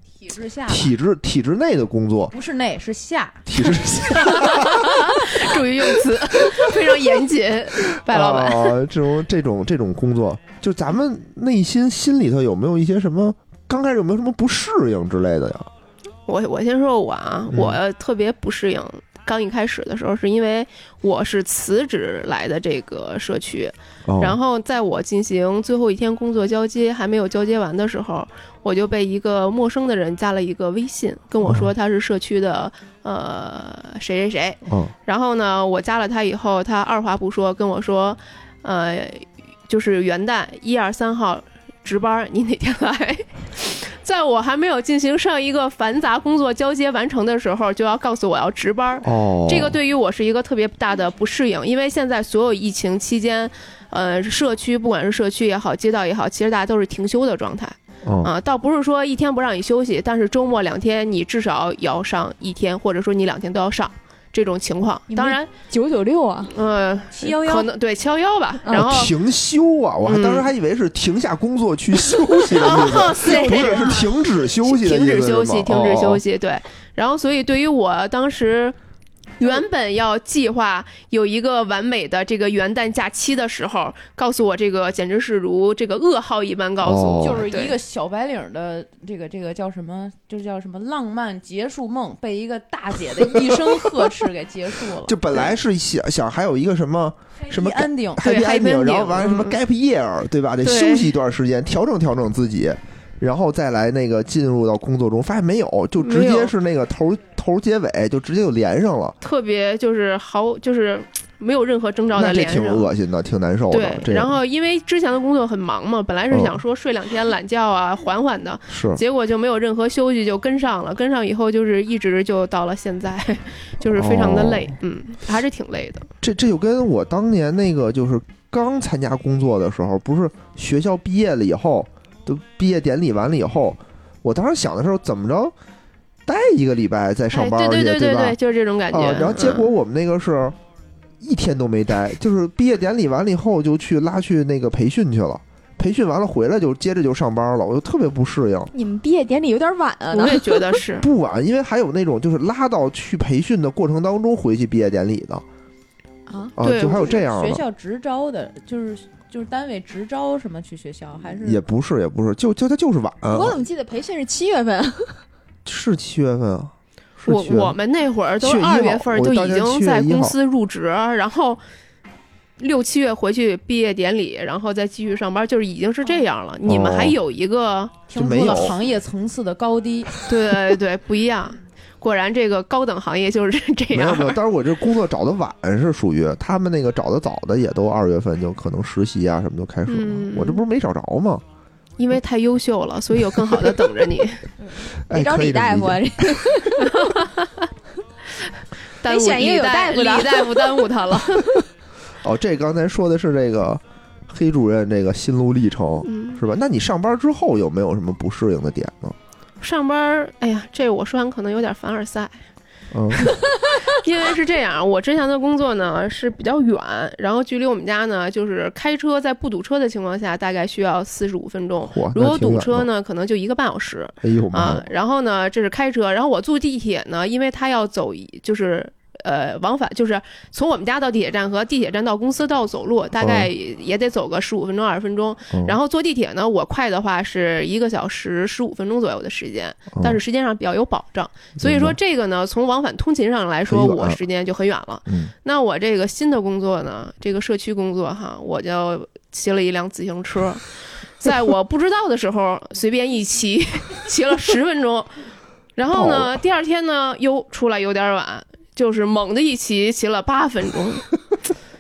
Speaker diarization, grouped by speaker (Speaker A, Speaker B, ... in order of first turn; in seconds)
Speaker A: 0.2-0.9, 2.3-3.5, 67.1-67.7, 87.2-95.4, 97.4-98.4, 156.7-161.6, 178.1-180.3
Speaker B: 0.7-2.3, 3.5-5.4, 8.1-15.7, 17.5-17.8, 24.1-24.4, 31.4-31.7, 34.7-34.9, 49.0-49.8, 58.0-58.3, 68.7-76.2, 86.8-87.5, 95.0-109.2, 112.1-114.4, 116.3-116.6, 118.7-119.0, 123.8-124.8, 126.2-135.5, 136.3-138.4, 138.9-140.6, 141.2-148.7, 151.0-155.4, 156.6-157.6, 161.3-163.6, 165.7-167.8, 168.4-170.3, 176.7-177.2, 178.1-178.8, 183.9-191.4, 195.1-196.5, 202.2-209.2, 212.9-213.3, 221.9-222.9, 224.2-224.8, 233.2-233.5, 235.5-235.8, 241.6-242.0, 243.7-244.2, 245.1-245.3, 255.9-256.4
Speaker C: 4.1-8.8, 16.3-65.5, 66.5-69.2, 70.0-70.5, 72.5-78.8, 79.4-87.8, 98.2-99.6, 100.6-101.1, 106.0-106.5, 109.2-112.9, 113.7-126.1, 137.3-139.7, 150.1-151.1, 156.6-157.1, 167.3-171.6, 172.6-178.1, 180.2-184.4, 189.9-190.6, 192.0-194.4, 196.9-197.7, 199.0-201.6, 206.1-206.4, 209.6-212.5, 213.2-255.2, 255.8-261.1
Speaker D: 65.1-66.5, 68.6-68.9, 73.2-74.0, 148.7-150.8, 156.3-156.5, 163.3-165.2, 194.6-197.2, 199.0-200.9